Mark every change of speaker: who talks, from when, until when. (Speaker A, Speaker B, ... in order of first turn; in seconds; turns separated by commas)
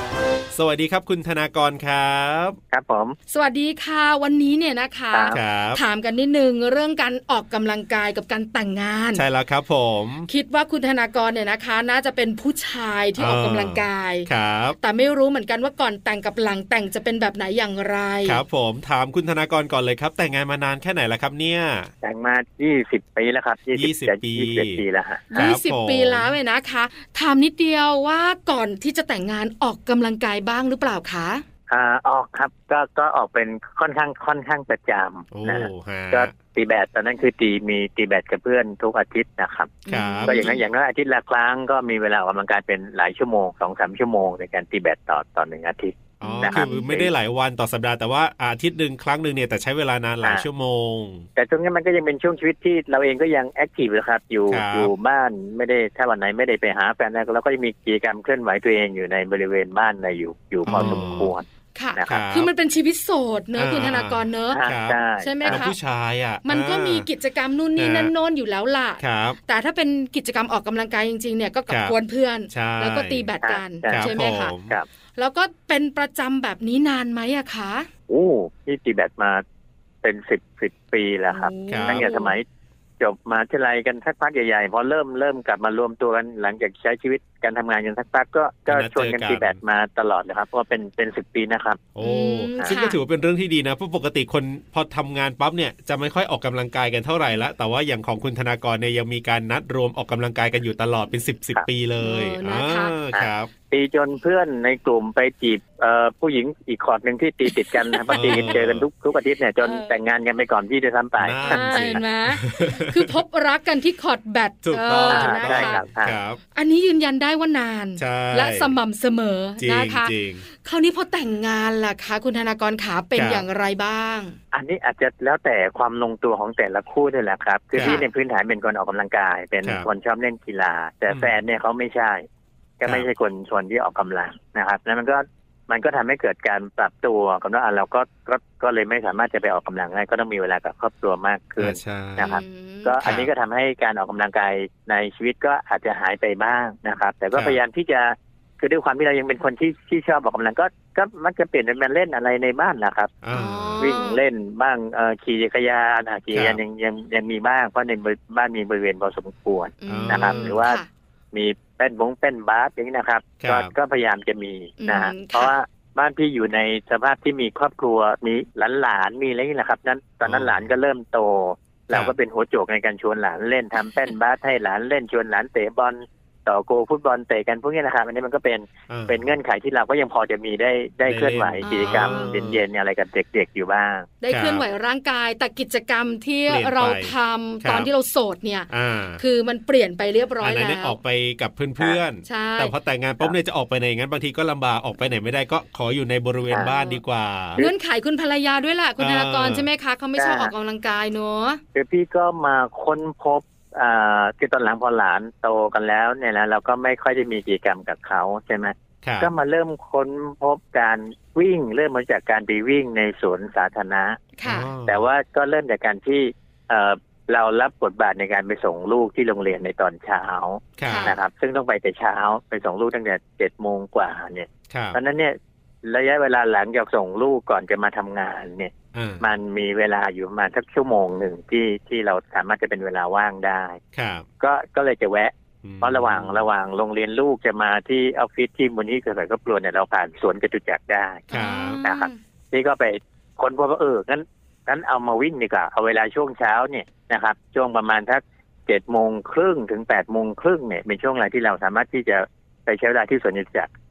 Speaker A: 0.5-2.6, Speaker B: 2.7-3.1, Speaker C: 3.3-9.2, Speaker A: 5.3-5.8, Speaker A: 9.1-10.3, Speaker C: 10.3-14.3, Speaker A: 13.2-14.8, Speaker C: 14.8-18.4, Speaker A: 18.2-21.9, Speaker B: 22.0-25.5, Speaker A: 23.8-24.8, Speaker C: 25.3-31.4, Speaker A: 25.3-26.3, Speaker B: 31.7-47.1, Speaker A: 35.3-36.3, Speaker C: 39.9-40.6, Speaker A: 39.9-40.4, Speaker C: 46.2-46.9, Speaker A: 46.2-51.2, Speaker B: 51.4-61.4, Speaker A: 54.5-54.9, Speaker A: 60.6-61.3, Speaker C: 60.7-61.2, Speaker C: 61.7-64.6, Speaker B: 62.0-62.2, Speaker A: 62.0-62.5, Speaker A: 63.5-67.1, Speaker B: 64.5-65.7, Speaker C: 65.2-65.7, Speaker C: 66.4-74.5, Speaker A: 67.8-68.1, Speaker A: 69.0-69.4, Speaker A: 71.7-71.9, Speaker A: 72.5-73.3, Speaker B: 73.4-74.2, Speaker A: 73.9-74.8, Speaker C: 75.2-77.9, Speaker B: 78.1-79.4, Speaker B: 80.0-82.4, Speaker C: 81.3-82.3, Speaker A: 81.7-82.0, Speaker B: 83.0-91.8, Speaker A: 88.7-89.5, Speaker A: 91.9-103.5, Speaker C: 92.0-93.0, Speaker C: 102.0-102.9, Speaker B: 103.1-112.0, Speaker C: 107.5-108.6, Speaker A: 108.1-108.8, Speaker C: 109.6-109.9, Speaker A: 111.2-113.1, Speaker C: 111.5-115.8, Speaker A: 114.6-116.4, Speaker B: 115.1-116.2, Speaker C: 116.5-124.3, Speaker A: 118.0-118.7, Speaker A: 119.6-120.4, Speaker A: 123.2-123.4, Speaker B: 124.5-132.2, Speaker A: 127.7-128.0, Speaker C: 127.8-128.1, Speaker B: 132.8-153.1, Speaker A: 141.6-142.3, Speaker C: 142.2-143.2, Speaker A: 143.0-143.3, Speaker A: 153.2-153.9, Speaker C: 153.3-154.2, Speaker B: 153.8-160.8, Speaker A: 156.3-156.6, Speaker C: 159.8-160.9, Speaker A: 159.9-160.6, Speaker B: 161.3-184.1, Speaker A: 163.4-163.7, Speaker C: 164.8-165.5, Speaker A: 170.2-170.6, Speaker A: 178.9-179.3, Speaker A: 181.1-182.6, Speaker C: 181.6-182.4, Speaker C: 184.2-191.0, Speaker A: 184.3-184.6, Speaker A: 186.5-187.1, Speaker A: 187.6-187.9, Speaker A: 188.7-189.2, Speaker A: 190.4-197.6, Speaker C: 192.2-192.7, Speaker C: 196.6-197.0, Speaker C: 197.6-201.6, Speaker A: 199.0-199.7, Speaker B: 200.2-200.5, Speaker B: 201.7-214.3, Speaker A: 209.0-209.3, Speaker C: 214.4-214.7, Speaker A: 214.4-215.0, Speaker B: 214.8-233.8, Speaker A: 220.8-221.1, Speaker C: 220.8-221.2, Speaker A: 224.7-225.0, Speaker A: 228.9-229.2, Speaker A: 233.9-234.2, Speaker B: 234.4-241.3, Speaker A: 235.6-236.4, Speaker C: 241.3-242.2, Speaker A: 241.3-241.8, Speaker B: 241.8-253.7